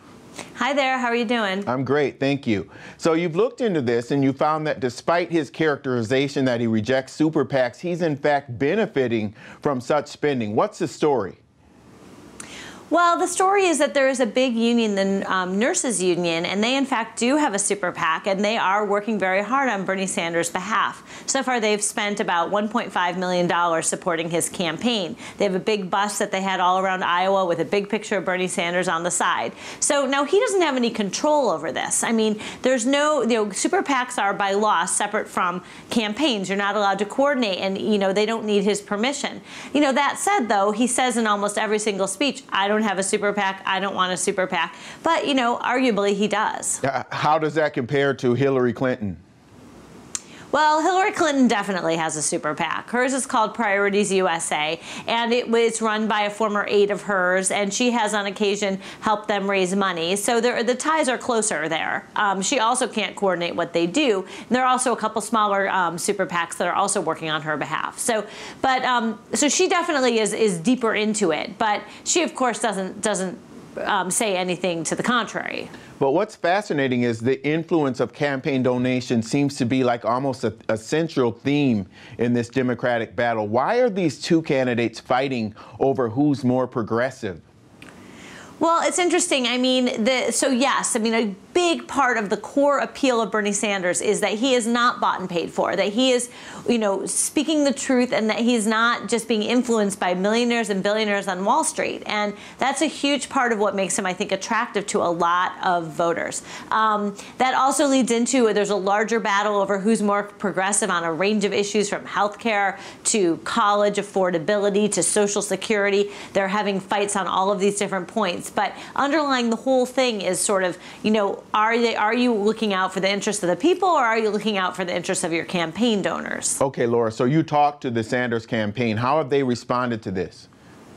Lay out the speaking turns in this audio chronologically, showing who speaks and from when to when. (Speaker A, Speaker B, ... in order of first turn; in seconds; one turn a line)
Speaker A: 0.6-1.7
Speaker B: 1.7-11.4
Speaker A: 12.9-46.8
Speaker B: 46.8-49.2
Speaker A: 50.5-75.7
Speaker B: 76.0-87.4
Speaker A: 88.6-126.6
Speaker B: 126.6-130.5